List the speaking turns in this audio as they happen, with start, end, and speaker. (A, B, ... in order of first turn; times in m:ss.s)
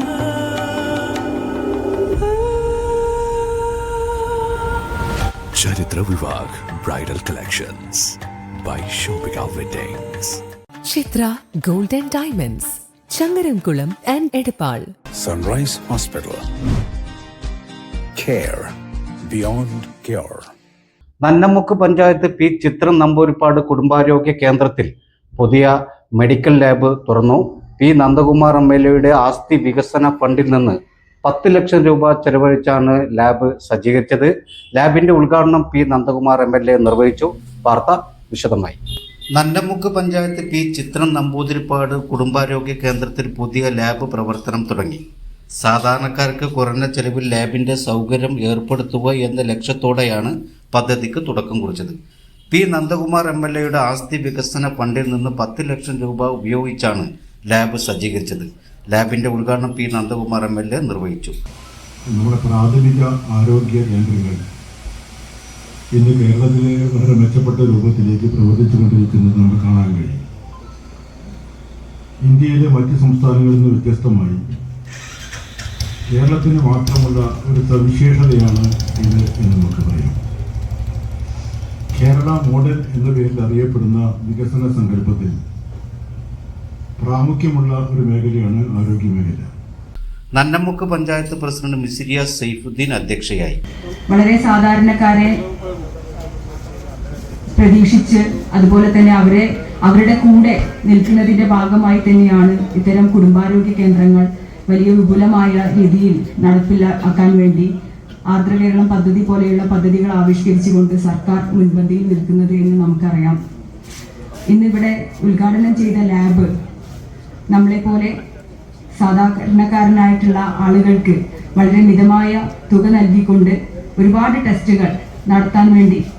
0:05.5-0:10.4 A
0:10.9-0:14.9 B
0:15.2-0:16.4 A
0:18.2-0:20.5 A
0:21.2-0:38.8 C
0:39.4-0:45.0 C
0:45.6-0:52.0 C
0:52.5-1:01.4 C
1:02.1-1:04.4 D
1:05.9-1:10.2 D
1:12.2-1:14.4 D
1:16.1-1:20.2 D
1:21.9-1:25.4 D
1:27.0-1:29.5 D
1:30.4-1:33.6 C
1:34.1-1:35.4 E
1:37.6-1:47.7 E
1:48.3-1:53.4 E
1:54.5-1:56.5 E
1:57.5-1:58.2 E
1:59.0-2:06.0 E